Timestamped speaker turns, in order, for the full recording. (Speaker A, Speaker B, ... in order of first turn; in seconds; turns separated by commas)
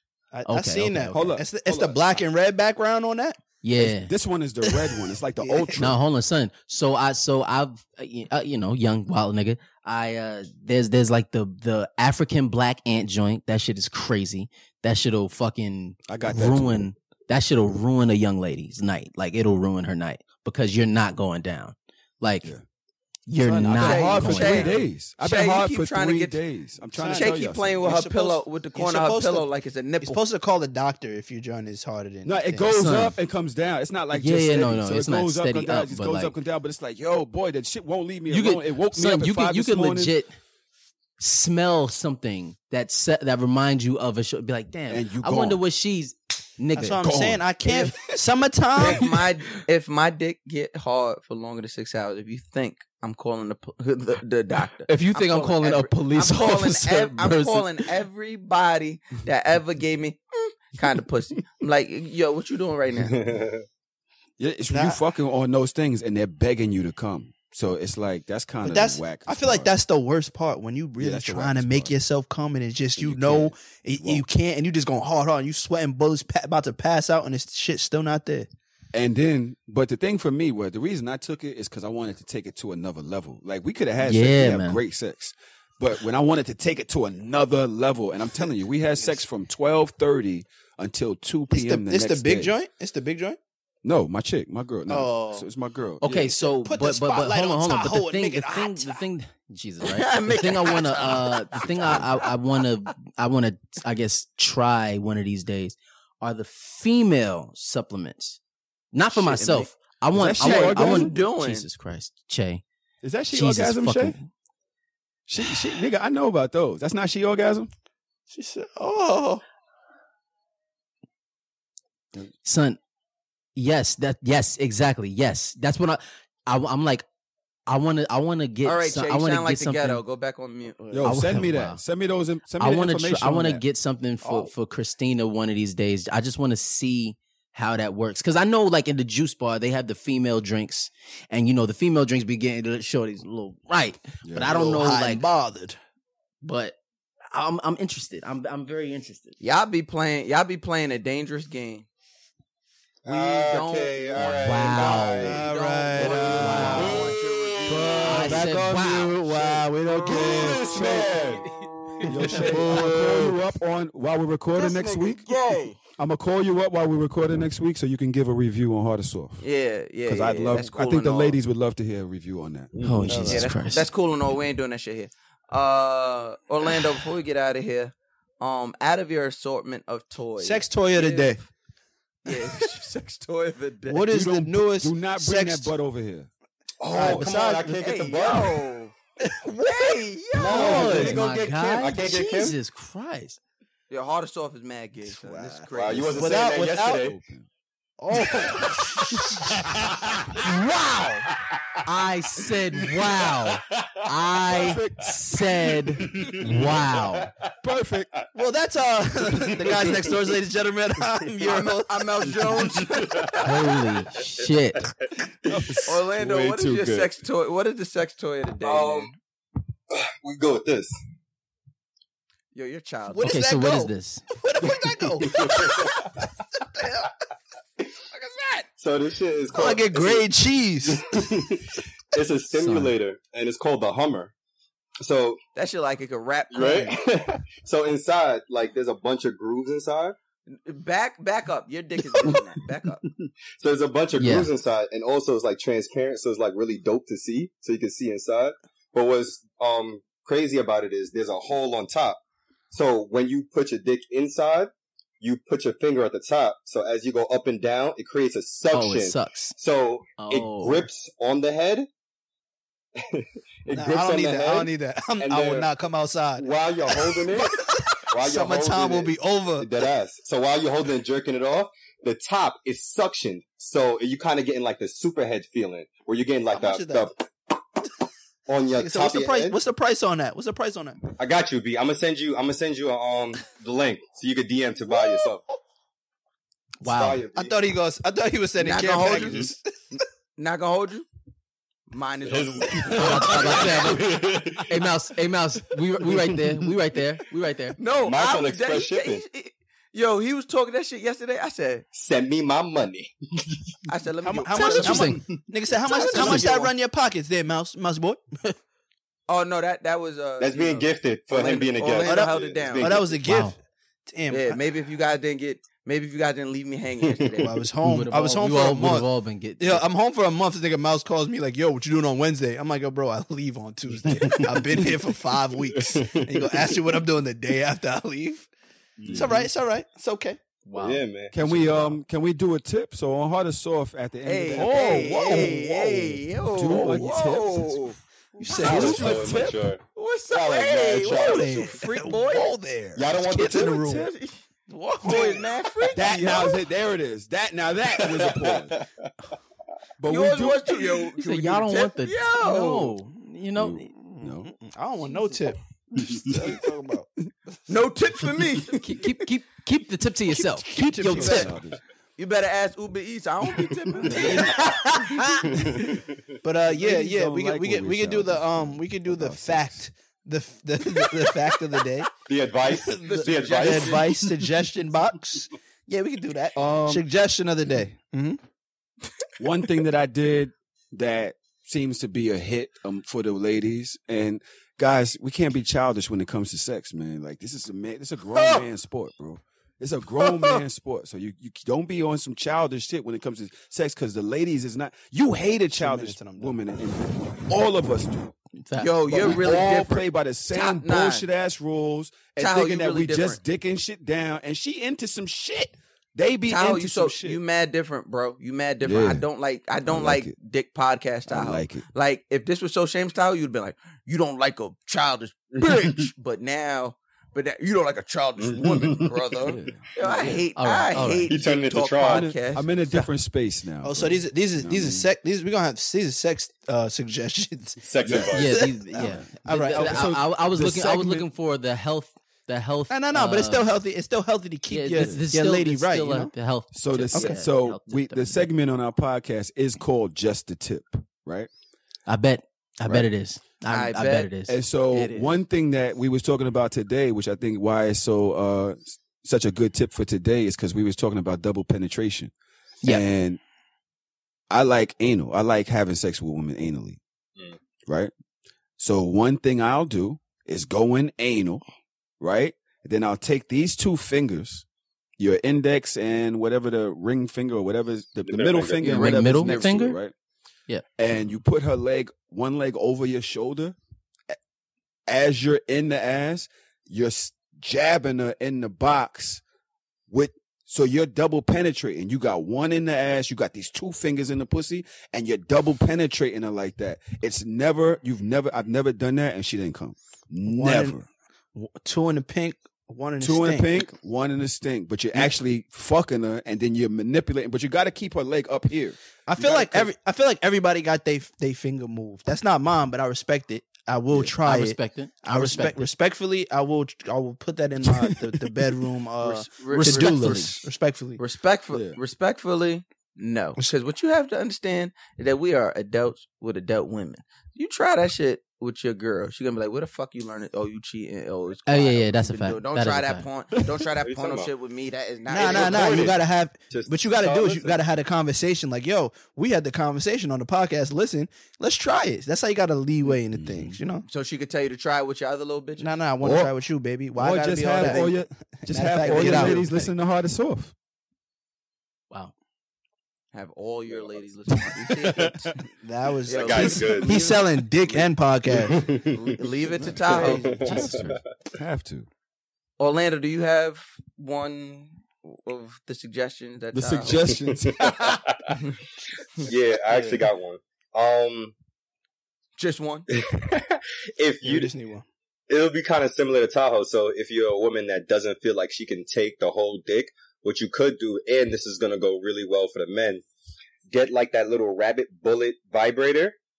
Speaker A: 0.3-3.4, Speaker B: 0.5-1.3, Speaker C: 1.1-2.2, Speaker B: 3.6-4.1, Speaker C: 3.8-6.0, Speaker A: 4.9-5.8, Speaker B: 5.8-22.5, Speaker C: 16.1-16.9, Speaker B: 23.3-24.8, Speaker C: 23.4-28.0, Speaker D: 23.8-26.4, Speaker A: 27.0-29.5, Speaker D: 27.0-30.2, Speaker A: 30.0-32.7, Speaker C: 32.2-40.2, Speaker B: 32.7-33.2, Speaker B: 34.1-36.3, Speaker B: 38.3-40.4, Speaker B: 41.2-47.0, Speaker C: 44.9-45.6, Speaker A: 46.8-49.2, Speaker C: 47.0-47.9, Speaker D: 48.8-63.1, Speaker B: 54.9-57.9, Speaker E: 63.1-63.6, Speaker C: 64.4-69.7, Speaker A: 64.7-65.0, Speaker A: 68.6-78.5, Speaker C: 71.0-72.0, Speaker C: 73.0-74.2, Speaker C: 78.9-92.5, Speaker B: 84.0-84.8, Speaker A: 91.5-93.4, Speaker C: 93.8-96.0, Speaker A: 94.9-95.5, Speaker B: 96.0-108.4, Speaker A: 96.0-99.0, Speaker D: 99.8-101.7, Speaker B: 108.9-112.6, Speaker A: 109.2-109.7, Speaker C: 110.1-111.1, Speaker D: 110.4-111.7, Speaker C: 113.0-114.2, Speaker B: 113.3-114.3, Speaker C: 115.3-117.7, Speaker A: 118.3-119.4, Speaker B: 122.4-122.8, Speaker B: 123.6-127.0, Speaker B: 127.7-130.0, Speaker D: 128.6-130.9, Speaker C: 130.9-133.6, Speaker B: 131.0-131.8, Speaker B: 132.6-145.2, Speaker A: 134.2-134.5, Speaker C: 144.2-144.8, Speaker A: 144.4-145.8, Speaker B: 146.4-146.8, Speaker B: 147.3-149.4, Speaker D: 149.4-151.9, Speaker D: 153.1-158.4, Speaker E: 153.1-163.3, Speaker B: 154.2-155.4, Speaker A: 155.2-157.1, Speaker B: 156.3-157.1, Speaker B: 158.0-160.2, Speaker A: 159.3-160.6, Speaker C: 160.2-161.2, Speaker B: 162.0-162.7, Speaker C: 162.1-165.2, Speaker D: 164.6-165.8, Speaker C: 166.0-169.4, Speaker D: 169.4-171.4, Speaker C: 170.1-172.7, Speaker E: 172.8-173.1, Speaker B: 172.8-173.9, Speaker A: 173.1-173.5, Speaker D: 173.3-181.4, Speaker A: 180.4-181.4, Speaker D: 182.2-184.1, Speaker A: 183.9-185.7, Speaker C: 184.1-186.3, Speaker E: 186.8-188.6, Speaker A: 186.9-187.8, Speaker D: 187.7-188.9, Speaker A: 189.2-189.9, Speaker D: 189.4-191.1, Speaker E: 190.4-192.6, Speaker A: 190.5-191.1, Speaker B: 190.5-193.4, Speaker D: 193.9-196.5, Speaker A: 195.1-197.1, Speaker E: 195.7-197.2, Speaker C: 196.6-197.5, Speaker A: 198.0-201.3, Speaker B: 201.8-207.3, Speaker E: 203.5-204.8, Speaker C: 204.6-205.1, Speaker E: 206.1-207.3, Speaker C: 207.6-208.1, Speaker A: 208.3-212.5, Speaker E: 209.6-210.1, Speaker D: 211.4-213.5, Speaker B: 213.4-214.9, Speaker E: 214.4-214.9, Speaker E: 215.5-215.8, Speaker C: 215.5-217.1, Speaker D: 215.9-219.1, Speaker E: 218.6-219.1, Speaker E: 219.9-221.0, Speaker D: 222.5-223.3, Speaker A: 223.1-227.1, Speaker B: 223.2-224.2, Speaker E: 225.2-226.1, Speaker A: 228.2-228.6, Speaker E: 228.8-230.3, Speaker A: 229.5-231.3, Speaker E: 230.9-234.3, Speaker B: 232.5-232.9, Speaker E: 235.0-235.4, Speaker D: 235.6-236.9, Speaker E: 236.5-240.2, Speaker D: 240.5-243.0, Speaker E: 243.6-252.2, Speaker B: 244.2-244.5, Speaker E: 252.7-261.9, Speaker B: 258.7-259.6, Speaker B: 260.2-260.9, Speaker E: 263.0-265.7, Speaker A: 263.7-269.7, Speaker E: 266.4-267.6, Speaker E: 268.1-277.1, Speaker A: 276.5-277.1, Speaker E: 278.5-279.6, Speaker A: 278.7-281.0, Speaker E: 281.2-285.4, Speaker A: 284.9-285.3, Speaker B: 286.8-287.2, Speaker E: 286.8-287.6, Speaker A: 287.3-289.6, Speaker D: 288.6-291.1, Speaker D: 291.9-293.9, Speaker E: 292.3-294.7, Speaker B: 292.9-297.8, Speaker D: 297.8-301.9, Speaker E: 298.0-299.2, Speaker E: 301.9-303.1, Speaker D: 303.9-305.2, Speaker A: 304.2-308.6, Speaker B: 304.6-305.3, Speaker D: 305.9-306.7, Speaker B: 306.1-306.4, Speaker D: 309.3-313.0, Speaker E: 310.4-313.2, Speaker A: 312.0-313.6, Speaker B: 313.2-313.5, Speaker A: 314.1-314.6, Speaker D: 314.3-317.5, Speaker A: 317.4-319.1, Speaker B: 317.8-319.9, Speaker A: 319.6-328.5, Speaker E: 325.8-326.7, Speaker E: 329.0-329.3, Speaker C: 329.1-329.4, Speaker A: 329.1-330.4, Speaker B: 330.7-332.0, Speaker E: 330.8-331.4, Speaker C: 331.3-337.9, Speaker D: 334.2-339.2, Speaker A: 334.5-335.9, Speaker A: 338.4-339.4, Speaker E: 338.6-341.7, Speaker C: 338.6-339.7, Speaker D: 339.9-342.5, Speaker A: 341.1-344.1, Speaker E: 343.0-343.9, Speaker C: 343.6-344.1, Speaker D: 343.9-344.4, Speaker A: 344.7-345.5, Speaker D: 345.0-346.6, Speaker C: 345.9-348.8, Speaker E: 348.0-349.1, Speaker C: 350.0-350.8, Speaker D: 350.1-352.9, Speaker B: 351.2-353.9, Speaker C: 353.6-354.5, Speaker A: 354.0-357.1, Speaker D: 357.7-359.1, Speaker B: 358.8-361.5, Speaker A: 360.3-361.5, Speaker C: 361.1-361.8, Speaker D: 362.2-364.8, Speaker C: 364.1-364.6, Speaker A: 364.1-365.4, Speaker E: 365.6-365.9, Speaker A: 366.4-372.1, Speaker C: 366.7-369.8, Speaker E: 372.3-374.3, Speaker A: 372.7-378.4, Speaker D: 373.1-374.1, Speaker C: 376.6-377.1, Speaker C: 379.4-398.3, Speaker A: 395.8-396.6, Speaker B: 398.6-399.4, Speaker D: 398.8-401.3, Speaker C: 399.1-407.4, Speaker D: 402.4-403.4, Speaker D: 406.5-423.1, Speaker C: 408.8-409.3, Speaker C: 409.9-410.3, Speaker C: 411.3-411.9, Speaker E: 415.6-415.9, Speaker E: 418.4-419.1, Speaker C: 419.4-420.4, Speaker B: 420.6-421.3, Speaker E: 421.3-422.3, Speaker C: 422.0-425.1, Speaker A: 423.8-430.1, Speaker E: 427.8-428.5, Speaker C: 428.0-428.4, Speaker B: 428.3-433.7, Speaker C: 429.0-431.3, Speaker A: 432.9-436.3, Speaker B: 434.7-438.5, Speaker C: 434.9-435.2, Speaker C: 436.7-441.5, Speaker A: 437.1-437.4, Speaker B: 442.1-444.6, Speaker D: 443.7-444.3, Speaker C: 444.5-452.3, Speaker D: 444.9-445.4, Speaker C: 452.8-453.4, Speaker C: 454.5-457.0, Speaker C: 458.8-461.6, Speaker C: 462.2-464.6, Speaker C: 465.2-470.1, Speaker E: 468.3-468.9, Speaker D: 468.8-469.7, Speaker B: 468.8-470.0, Speaker C: 471.0-473.8, Speaker C: 475.1-479.4, Speaker C: 480.1-491.1, Speaker A: 490.5-491.0, Speaker A: 491.6-493.8, Speaker C: 493.2-499.8, Speaker A: 499.3-511.2, Speaker D: 499.4-499.7, Speaker B: 504.4-505.9, Speaker C: 507.8-508.6, Speaker D: 509.2-510.6, Speaker B: 509.7-510.6, Speaker D: 511.2-526.1, Speaker C: 511.7-512.0, Speaker B: 521.7-523.3, Speaker E: 524.0-524.5, Speaker A: 525.3-534.0, Speaker E: 525.3-527.8, Speaker C: 533.3-533.8, Speaker D: 534.1-535.9, Speaker A: 535.8-539.6, Speaker C: 536.2-536.5, Speaker C: 537.1-540.7, Speaker D: 537.8-538.1, Speaker B: 539.1-539.9, Speaker D: 539.2-539.6, Speaker D: 543.3-545.5, Speaker A: 545.8-548.8, Speaker D: 546.3-548.1, Speaker E: 546.3-547.1, Speaker E: 548.6-549.2, Speaker D: 549.0-550.6, Speaker E: 550.1-551.2, Speaker C: 550.1-552.1, Speaker A: 550.2-550.5, Speaker B: 550.6-551.2, Speaker D: 552.8-557.3, Speaker C: 556.7-557.9, Speaker E: 557.5-558.5, Speaker E: 559.4-561.5, Speaker A: 559.9-560.2, Speaker D: 562.6-563.1, Speaker E: 563.1-564.7, Speaker A: 564.4-565.1, Speaker E: 565.5-573.2, Speaker E: 573.9-576.4